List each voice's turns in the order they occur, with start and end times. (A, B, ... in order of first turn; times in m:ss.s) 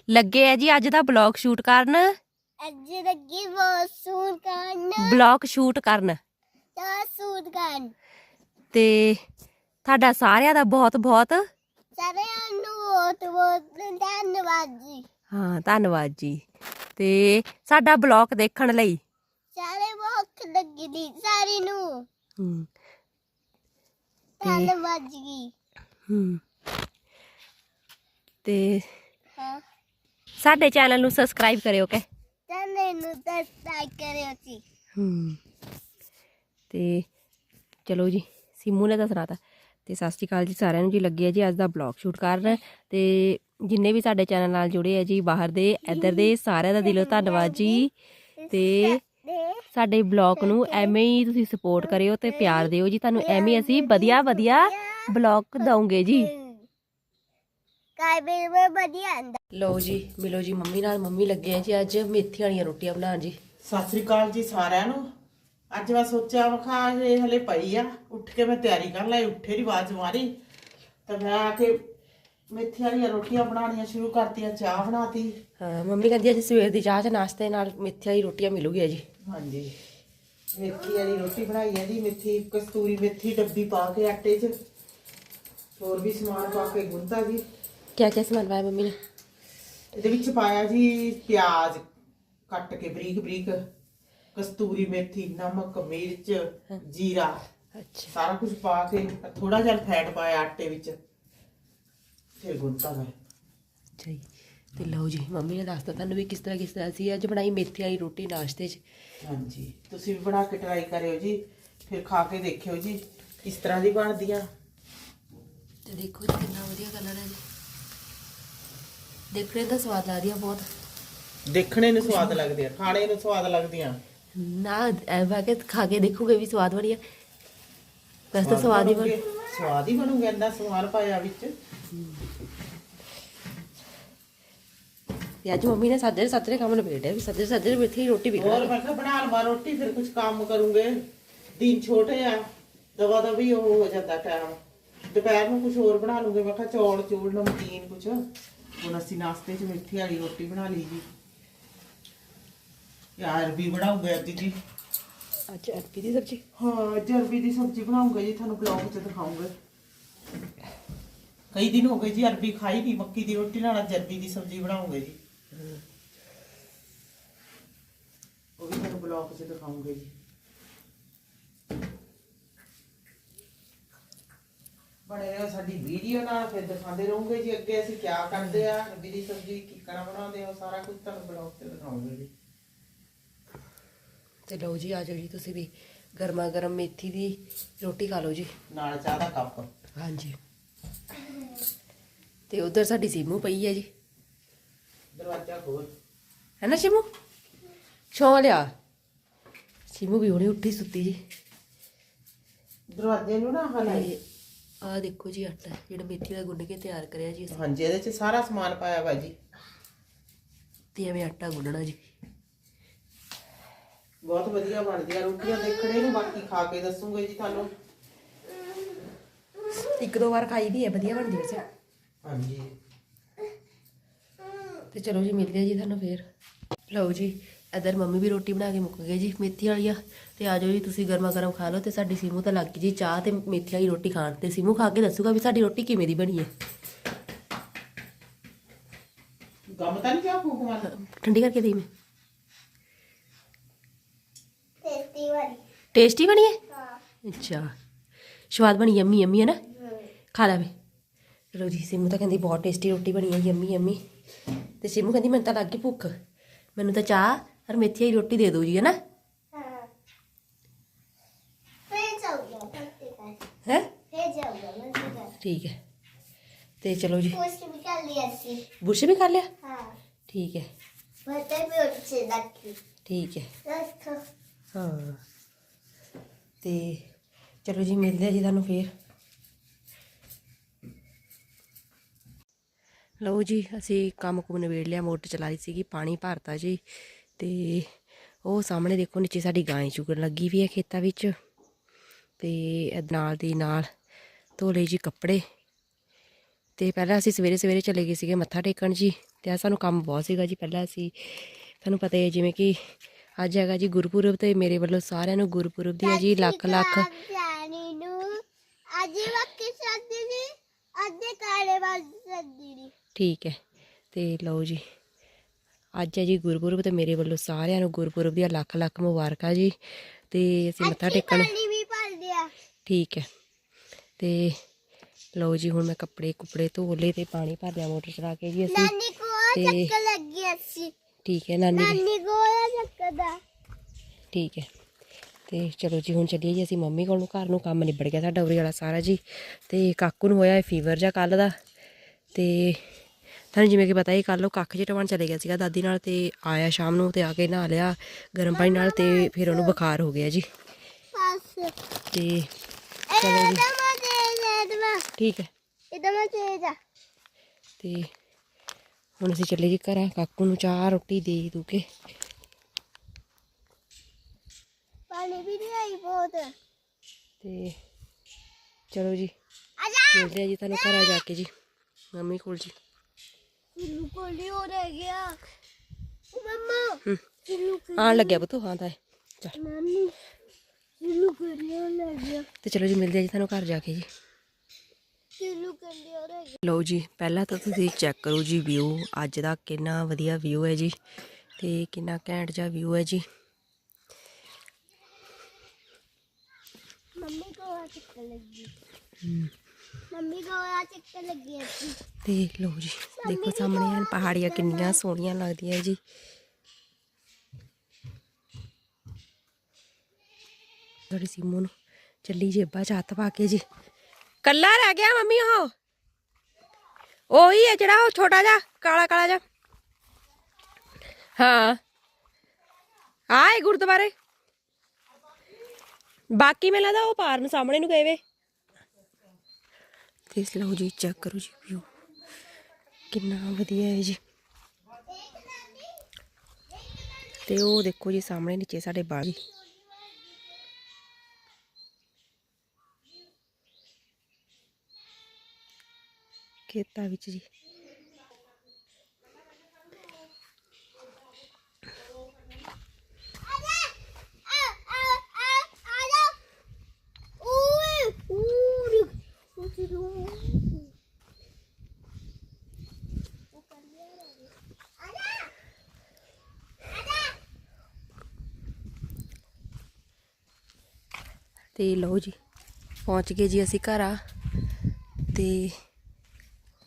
0:00.1-0:02.2 A
0:02.6-0:05.2 B
0:05.0-0:06.2 A
0:06.8-0:07.9 B
0:08.7-0:09.2 A
0:09.8-0:11.5 A
0:12.0-0:15.0 B
0:15.3-0:16.4 A
0:17.0-0:19.0 A
0:19.6-0:22.1 B
0:22.4-0:22.7 A
0:24.4-0:25.5 B
0:24.4-0:24.7 A
0:26.1-0:26.4 A
0:28.4-0:28.9 A
0:29.4-0:29.6 B
0:30.4-0:32.1 A
0:32.5-0:34.6 B
0:35.0-0:35.4 A
0:36.7-0:37.1 A
0:37.9-0:47.9 A
0:45.9-0:47.9 B
0:48.4-0:49.6 B
0:48.5-0:49.0 A
0:49.7-0:56.3 A
0:50.4-0:51.0 B
0:51.8-0:56.7 B
0:58.0-0:59.4 B
0:59.5-1:03.4 A
1:03.6-1:05.0 C
1:05.7-1:10.3 C
1:11.1-1:11.8 C
1:12.5-1:15.4 C
1:15.6-1:19.0 A
1:19.2-1:19.8 C
1:20.6-1:24.5 C
1:25.8-1:27.4 C
1:28.0-1:29.0 A
1:29.9-1:31.9 C
1:32.5-1:33.6 C
1:34.4-1:37.4 C
1:37.8-1:38.1 A
1:38.1-1:41.0 C
1:42.4-1:43.1 C
1:44.0-1:48.8 A
1:49.2-1:54.5 C
1:55.9-1:57.4 A
1:59.3-2:00.7 A
2:01.5-2:04.0 C
2:02.1-2:02.4 A
2:04.4-2:07.0 A
2:08.3-2:09.2 A
2:08.4-2:11.5 C
2:15.4-2:18.7 A
2:18.4-2:21.0 C
2:21.6-2:22.4 C
2:23.0-2:24.6 C
2:25.1-2:28.2 C
2:28.8-2:31.1 C
2:33.2-2:34.6 C
2:35.5-2:36.4 A
2:36.6-2:39.5 C
2:41.5-2:45.2 C
2:48.6-2:50.1 C
2:55.1-3:02.3 C
2:58.4-2:58.6 A
3:04.5-3:08.5 A
3:08.7-3:09.7 C
3:10.0-3:10.4 A
3:12.5-3:13.9 A
3:15.1-3:15.9 C
3:16.6-3:17.1 A
3:18.1-3:18.7 A
3:19.9-3:21.2 A
3:22.9-3:24.1 C
3:23.9-3:24.2 A
3:24.8-3:27.6 A
3:27.5-3:29.4 C
3:31.0-3:32.0 A
3:34.2-3:37.7 C
3:39.8-3:41.6 A
3:42.2-3:42.7 C
3:44.9-3:46.2 A
3:46.9-3:56.5 A
3:59.7-4:00.9 C
4:00.8-4:01.9 A
4:04.8-4:05.6 B
4:05.9-4:06.6 A
4:06.7-4:07.0 B
4:07.3-4:07.7 A
4:08.5-4:09.6 A
4:09.7-4:10.1 B
4:10.3-4:10.7 A
4:11.5-4:14.0 A
4:14.8-4:16.2 A
4:16.8-4:19.0 A
4:19.5-4:19.9 B
4:21.9-4:23.4 B
4:23.7-4:23.9 A
4:24.1-4:25.3 B
4:25.4-4:25.8 A
4:26.8-4:27.4 A
4:27.3-4:28.7 B
4:28.8-4:29.5 A
4:29.6-4:30.0 B
4:30.3-4:30.7 A
4:31.3-4:32.8 B
4:33.1-4:33.5 A
4:33.6-4:34.2 B
4:34.7-4:35.2 A
4:36.6-4:37.1 A
4:37.6-4:38.9 A
4:43.2-4:46.8 A
4:47.4-4:51.4 A
4:52.4-4:53.9 A
4:54.6-4:55.4 A
4:56.8-5:07.1 A
5:06.0-5:08.4 B
5:08.9-5:12.9 B
5:13.2-5:13.6 A
5:14.1-5:14.8 A
5:16.0-5:21.5 A
5:20.8-5:22.5 B
5:22.9-5:23.3 A
5:24.2-5:24.6 A
5:25.4-5:28.9 A
5:28.7-5:30.9 B
5:29.5-5:29.9 A
5:31.2-5:32.0 A
5:31.7-5:33.4 B
5:34.3-5:34.7 A
5:35.5-5:41.6 A
5:42.4-5:43.0 A
5:43.5-5:50.5 A
5:48.5-5:49.8 B
5:51.1-5:51.8 B
5:52.1-5:52.5 A
5:53.1-5:55.1 B
5:53.2-5:53.6 A
5:55.2-5:55.5 A
5:55.9-5:56.8 B
5:57.8-5:58.1 A
5:59.2-6:01.9 A
6:05.1-6:06.6 B
6:07.4-6:07.8 A
6:08.9-6:09.3 A
6:09.8-6:11.2 B
6:10.1-6:11.5 A
6:12.1-6:12.8 A
6:13.8-6:15.4 B
6:16.3-6:18.4 B
6:17.9-6:19.6 A
6:19.6-6:20.2 B
6:21.0-6:22.5 B
6:22.6-6:24.1 A
6:25.4-6:26.6 B
6:26.6-6:31.0 A
6:31.6-6:33.2 A
6:37.2-6:38.7 B
6:39.2-6:39.5 A
6:40.1-6:42.0 B
6:42.2-6:46.0 A
6:43.2-6:45.0 B
6:51.1-6:51.7 A
6:52.2-6:53.6 A
6:54.4-6:55.7 A
6:57.3-6:59.4 A
7:01.4-7:01.8 A
7:03.3-7:04.1 A
7:06.3-7:08.2 A
7:10.3-7:11.9 A
7:13.1-7:14.2 A
7:15.1-7:16.0 B
7:17.4-7:19.4 A
7:26.7-7:27.5 A
7:33.5-7:36.4 B
7:37.4-7:40.9 B
7:43.5-7:45.5 B
7:46.9-7:47.4 B
7:51.8-7:52.4 A
7:53.0-7:54.2 A
7:55.3-7:55.8 A